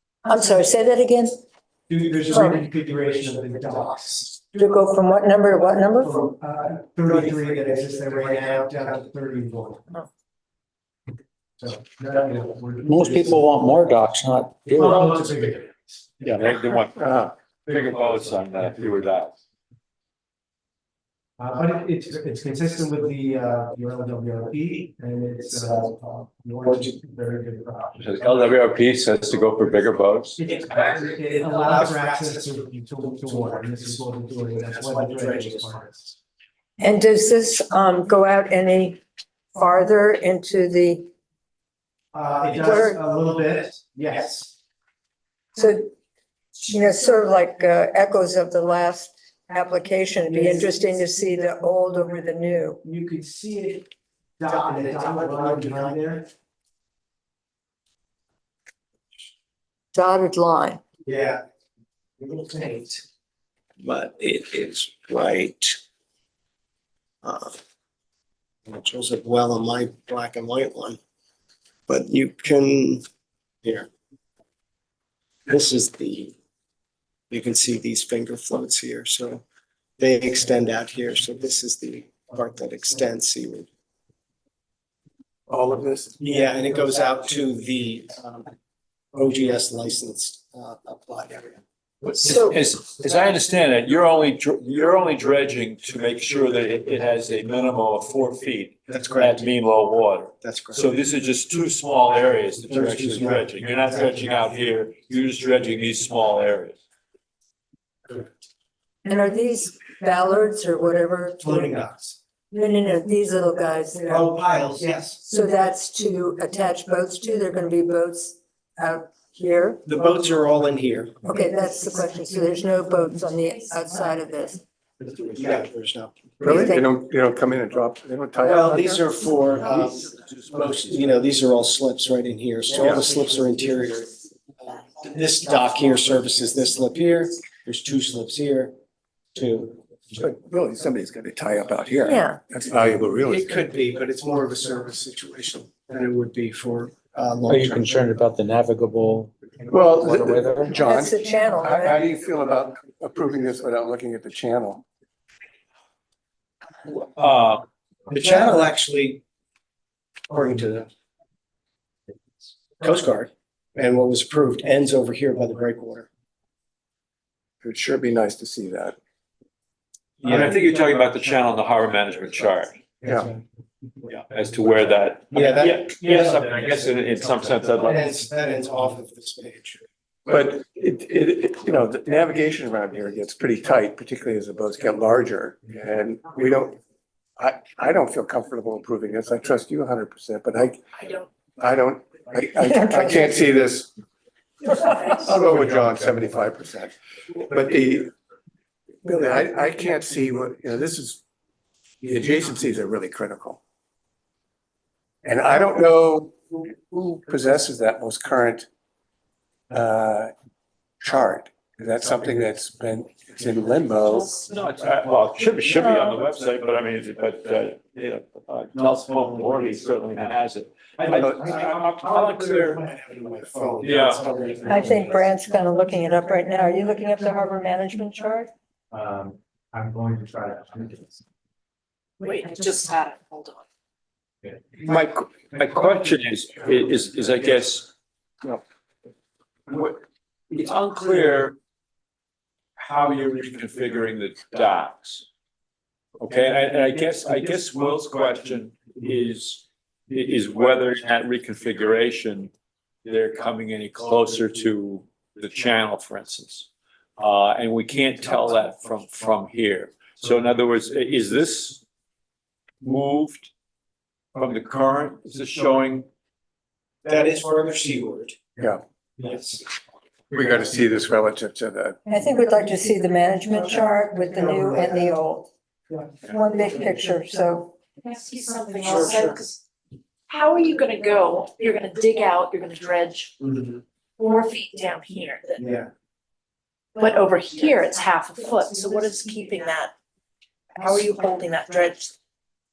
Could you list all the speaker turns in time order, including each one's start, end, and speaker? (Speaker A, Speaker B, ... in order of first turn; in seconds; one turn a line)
Speaker A: 0.2-1.3
Speaker B: 1.9-4.4
Speaker A: 2.3-2.6
Speaker A: 4.5-6.2
Speaker B: 6.0-10.0
Speaker B: 11.6-13.7
Speaker C: 12.8-14.9
Speaker B: 14.7-16.1
Speaker D: 16.2-19.3
Speaker E: 17.0-17.3
Speaker B: 21.4-28.0
Speaker D: 28.0-30.4
Speaker B: 30.4-36.1
Speaker F: 30.4-32.5
Speaker F: 33.2-33.8
Speaker F: 34.7-35.8
Speaker A: 36.8-39.0
Speaker A: 39.5-41.1
Speaker B: 42.1-44.5
Speaker A: 42.6-43.0
Speaker A: 45.5-45.9
Speaker A: 46.6-52.8
Speaker B: 50.3-50.9
Speaker B: 52.8-53.9
Speaker B: 54.4-56.2
Speaker F: 54.9-55.9
Speaker A: 59.9-60.8
Speaker F: 61.1-61.4
Speaker F: 62.2-63.0
Speaker F: 63.8-65.8
Speaker F: 67.2-67.5
Speaker F: 68.7-71.0
Speaker F: 71.9-73.0
Speaker F: 73.6-73.9
Speaker F: 75.5-76.3
Speaker F: 77.3-79.4
Speaker F: 80.0-83.7
Speaker E: 85.5-86.2
Speaker F: 86.2-88.5
Speaker F: 89.1-92.2
Speaker D: 92.2-106.8
Speaker F: 98.9-99.5
Speaker F: 100.4-100.8
Speaker F: 102.7-103.4
Speaker A: 109.0-111.7
Speaker B: 111.4-112.2
Speaker A: 112.5-114.3
Speaker F: 114.2-115.1
Speaker B: 114.2-115.2
Speaker A: 115.2-119.8
Speaker F: 119.8-121.2
Speaker A: 121.2-124.6
Speaker F: 125.0-126.2
Speaker E: 126.4-129.0
Speaker A: 126.5-126.8
Speaker F: 128.4-138.7
Speaker F: 139.3-139.8
Speaker E: 140.1-143.6
Speaker A: 142.1-142.4
Speaker F: 143.2-147.9
Speaker C: 147.5-149.3
Speaker E: 149.7-154.8
Speaker C: 150.0-150.7
Speaker A: 150.8-152.0
Speaker D: 156.9-157.7
Speaker F: 158.1-159.2
Speaker F: 160.3-160.9
Speaker F: 162.8-166.1
Speaker E: 167.6-168.9
Speaker D: 170.2-172.8
Speaker E: 173.0-173.3
Speaker D: 174.1-178.1
Speaker F: 175.3-175.9
Speaker F: 177.8-179.8
Speaker E: 180.3-186.8
Speaker E: 187.4-193.9
Speaker E: 194.6-198.1
Speaker E: 199.0-201.2
Speaker E: 202.0-203.6
Speaker E: 205.2-208.7
Speaker E: 209.7-210.3
Speaker E: 211.0-214.4
Speaker D: 214.0-222.8
Speaker F: 221.5-221.8
Speaker F: 222.5-225.2
Speaker D: 223.8-224.3
Speaker A: 224.7-228.5
Speaker G: 232.2-233.6
Speaker D: 234.8-237.9
Speaker D: 239.7-241.6
Speaker D: 242.8-245.2
Speaker D: 246.2-252.5
Speaker D: 253.0-261.8
Speaker D: 262.8-263.5
Speaker D: 264.3-266.1
Speaker F: 267.0-268.4
Speaker F: 269.2-269.6
Speaker E: 270.3-272.0
Speaker A: 272.1-275.5
Speaker A: 276.2-277.8
Speaker G: 278.0-279.6
Speaker F: 278.8-279.3
Speaker G: 280.3-283.4
Speaker G: 284.2-285.6
Speaker G: 286.9-289.9
Speaker G: 290.8-292.1